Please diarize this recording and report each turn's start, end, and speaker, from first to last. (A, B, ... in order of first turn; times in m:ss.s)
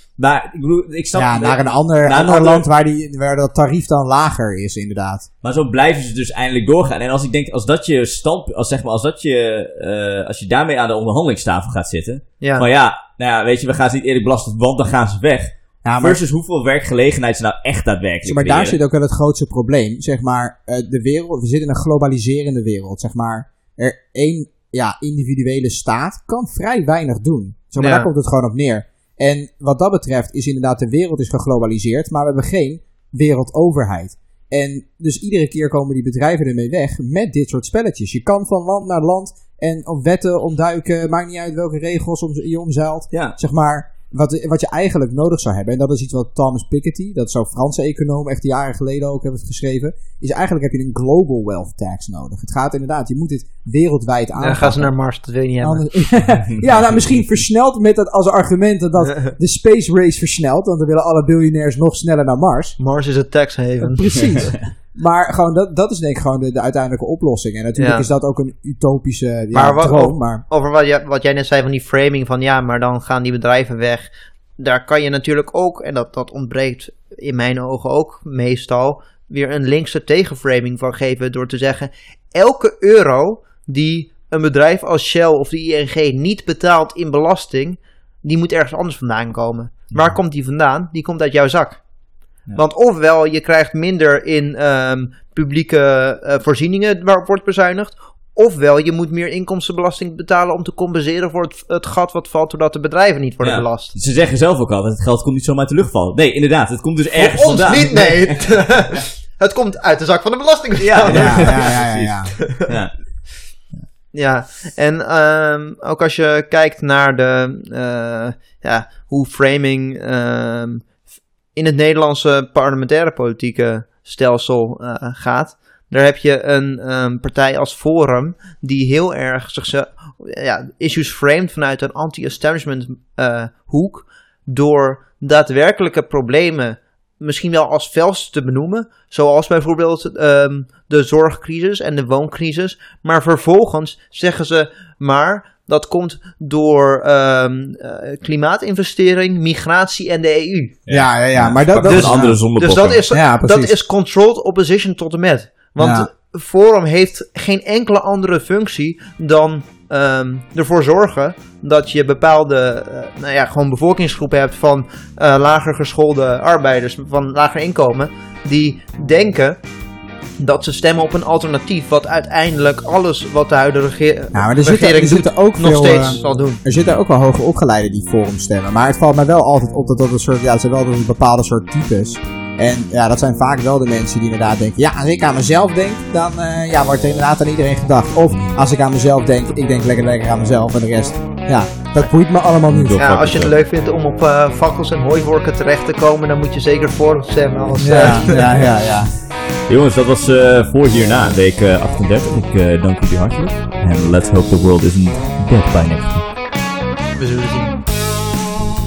0:00.2-0:02.6 A
0:01.2-0:05.3 B
0:05.4-0:18.8 A
0:15.8-0:16.2 B
0:18.2-0:54.9 B
0:27.8-0:28.1 C
0:54.4-0:55.9 C
0:55.6-1:02.8 B
1:02.8-1:04.6 C
1:03.8-1:10.4 B
1:04.2-1:04.5 A
1:07.8-1:08.1 C
1:09.5-1:31.8 C
1:32.5-1:44.0 C
1:43.4-1:48.5 A
1:47.1-1:51.8 C
1:50.8-1:53.0 A
1:51.1-1:52.3 B
1:54.1-2:00.9 C
2:01.5-2:30.8 C
2:30.9-2:33.0 A
2:30.9-2:32.4 B
2:31.8-2:49.6 C
2:33.1-2:33.7 B
2:35.8-2:36.1 B
2:50.4-2:56.6 C
2:54.3-3:13.0 B
3:08.3-3:08.6 A
3:12.7-3:13.5 A
3:13.0-3:18.7 C
3:17.8-3:19.2 B
3:19.7-3:26.3 A
3:27.2-3:27.8 C